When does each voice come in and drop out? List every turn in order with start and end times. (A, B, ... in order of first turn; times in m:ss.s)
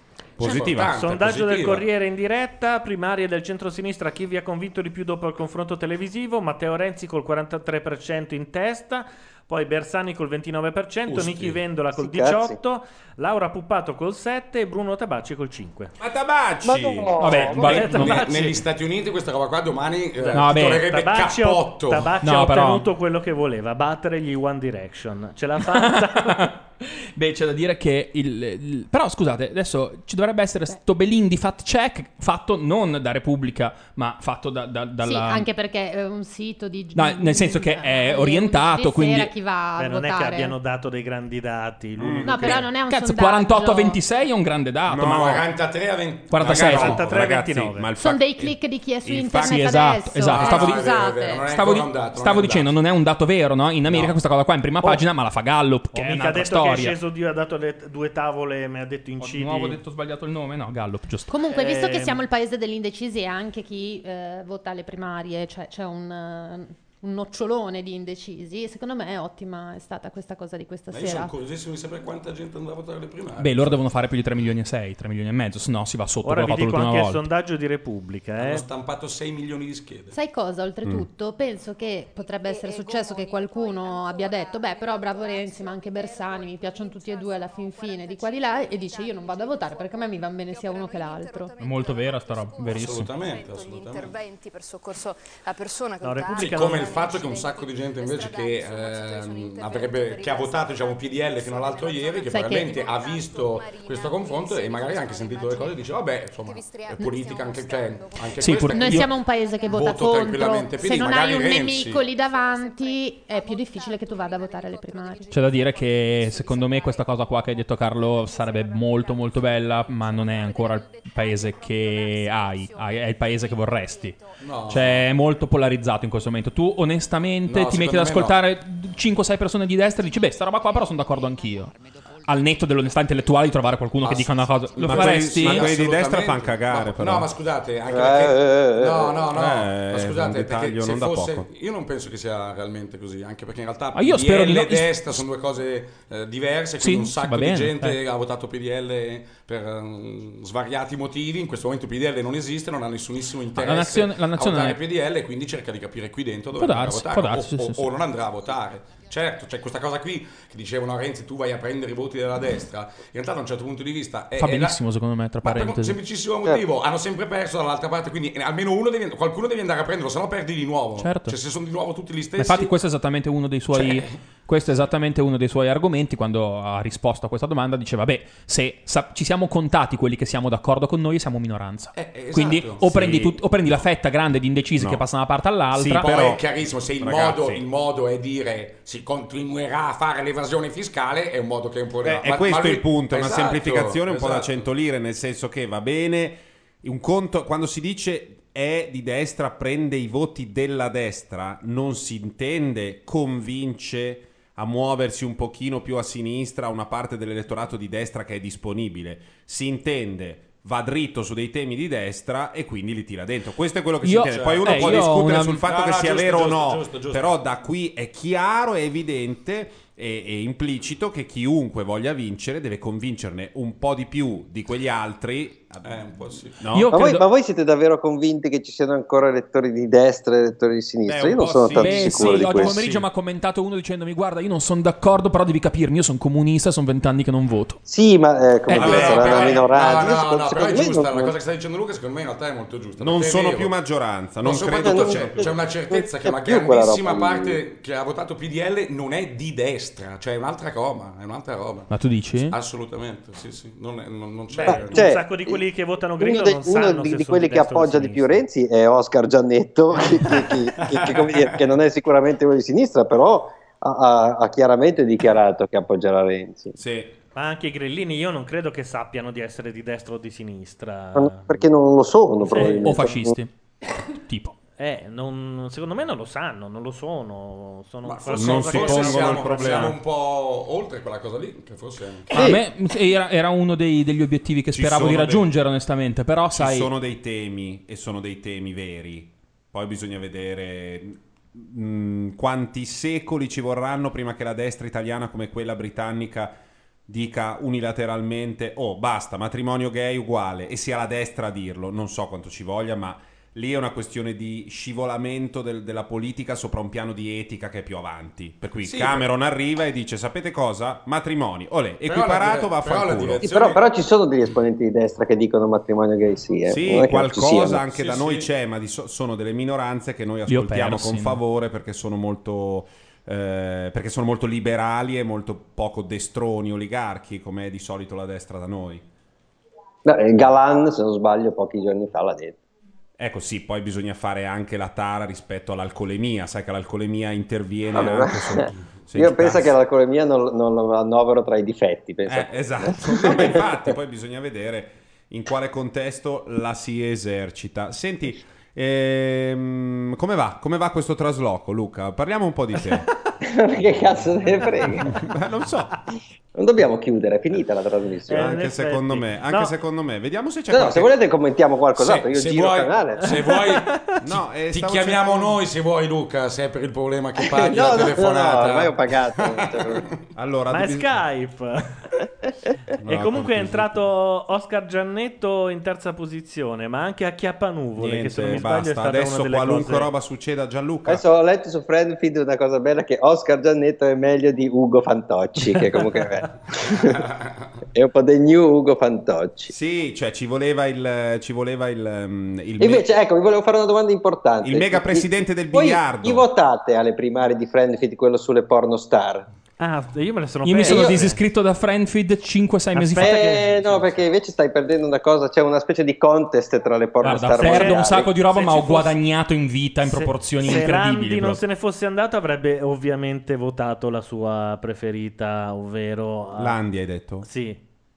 0:00.4-0:01.0 A
0:00.4-0:01.9 B
0:00.4-0:15.9 C
0:11.1-0:11.6 B
0:12.0-0:12.6 D
0:16.0-0:17.2 A
0:16.7-0:17.5 D
0:17.2-0:18.3 E
0:17.5-0:22.1 B
0:17.6-0:18.5 C
0:20.3-0:26.5 C
0:20.3-0:20.9 E
0:22.2-0:22.9 E
0:25.7-0:35.5 E
0:35.0-0:40.6 F
0:36.9-0:39.4 E
0:39.8-0:42.7 C
0:42.0-0:42.6 A
0:42.2-0:44.0 F
0:42.4-0:45.4 E
0:44.9-0:45.5 A
0:45.0-0:47.0 B
0:46.3-0:47.0 E
0:46.4-0:50.6 A
0:46.7-0:48.0 C
0:48.0-0:51.4 F
0:49.4-0:57.0 E
0:50.3-0:52.8 B
0:53.8-0:54.2 B
0:55.9-0:59.8 C
0:59.2-1:01.4 E
1:01.3-1:11.3 F
1:01.5-1:02.2 C
1:10.9-1:13.8 B
1:13.4-1:17.2 E
1:16.2-1:18.6 C
1:18.4-1:20.2 B
1:20.1-1:31.6 F
1:30.9-1:45.8 G
1:31.6-1:33.1 E
1:32.7-1:34.2 B
1:36.0-1:36.9 C
1:36.3-1:49.1 B
1:42.3-1:42.8 F
1:46.5-1:48.3 G
1:48.4-1:49.1 E
1:48.8-1:55.3 F
1:49.5-1:49.8 G
1:49.7-1:52.0 B
1:55.3-2:11.7 E
1:56.1-1:57.0 G
2:00.5-2:01.4 G
2:02.2-2:02.5 G
2:03.1-2:03.5 G
2:04.4-2:05.1 B
2:07.5-2:08.4 B
2:12.3-2:15.7 E
2:14.8-2:44.8 B
2:14.8-2:17.3 A
2:17.9-2:19.3 D
2:19.3-2:21.5 A
2:23.9-2:25.2 E
2:26.8-2:28.0 E
2:33.6-2:34.8 E
2:36.6-2:37.8 E
2:44.4-2:46.0 E
2:45.4-2:52.8 B
2:51.0-2:51.4 E
2:52.4-3:06.1 E
2:53.7-2:54.1 B
3:02.0-3:03.2 B
3:02.8-3:03.4 A
3:04.8-3:05.0 A
3:05.7-3:14.6 B
3:05.8-3:07.6 A
3:12.0-3:47.0 A
3:34.0-3:35.7 E
3:34.2-3:37.3 B
3:45.8-3:46.7 B
3:46.7-3:47.2 E
3:46.9-3:52.7 D
3:51.1-3:53.0 A
3:51.8-3:57.8 E
3:52.7-3:53.0 B
3:57.9-4:01.3 D
3:58.7-3:59.3 E
3:58.7-3:59.7 A
3:58.8-4:03.7 B
4:03.0-4:05.5 A
4:04.4-4:15.2 B
4:04.7-4:07.6 D
4:11.9-4:12.6 E
4:14.6-4:15.6 D
4:14.7-4:18.4 C
4:16.2-4:26.8 D
4:26.8-4:27.1 A
4:27.4-4:31.6 C
4:31.2-4:33.4 D
4:32.4-4:32.9 C
4:32.8-4:33.5 E
4:34.3-4:34.6 E
4:34.8-4:39.9 C
4:38.0-4:42.5 B
4:38.3-4:40.0 A
4:42.3-4:46.9 E
4:42.4-4:42.6 D
4:44.7-4:45.5 A
4:46.5-4:56.6 A
4:57.1-5:13.5 A
5:08.8-5:09.3 B
5:12.0-5:13.9 B
5:13.4-5:17.8 D
5:16.7-5:29.0 A
5:17.9-5:18.5 B
5:20.5-5:21.4 E
5:30.0-5:32.6 D
5:33.2-5:39.8 A
5:37.9-5:44.0 D
5:42.2-5:53.1 A
5:53.4-5:55.1 D
5:55.1-5:56.0 A
5:56.6-5:58.4 D
5:58.3-5:59.7 C
5:58.3-6:01.1 A
6:00.7-6:03.2 D
6:02.0-6:03.9 B
6:03.2-6:04.2 C
6:04.2-6:05.6 A
6:04.7-6:10.2 B
6:07.4-6:10.0 D
6:10.4-6:11.2 A
6:10.7-6:11.9 C
6:13.0-6:14.0 A
6:13.0-6:20.1 C
6:18.0-6:21.2 A
6:21.1-6:27.2 D
6:27.0-6:27.7 B
6:28.0-6:29.7 D
6:29.7-6:33.1 A
6:32.8-6:39.5 D
6:34.6-6:36.5 A
6:39.8-6:41.4 C
6:40.6-6:43.6 E
6:40.8-6:41.3 D
6:43.0-6:48.4 D
6:43.2-6:44.0 C
6:47.2-6:51.6 E
6:47.6-6:49.2 C
6:50.0-6:56.8 C
6:56.6-6:57.5 A
6:57.4-6:57.8 C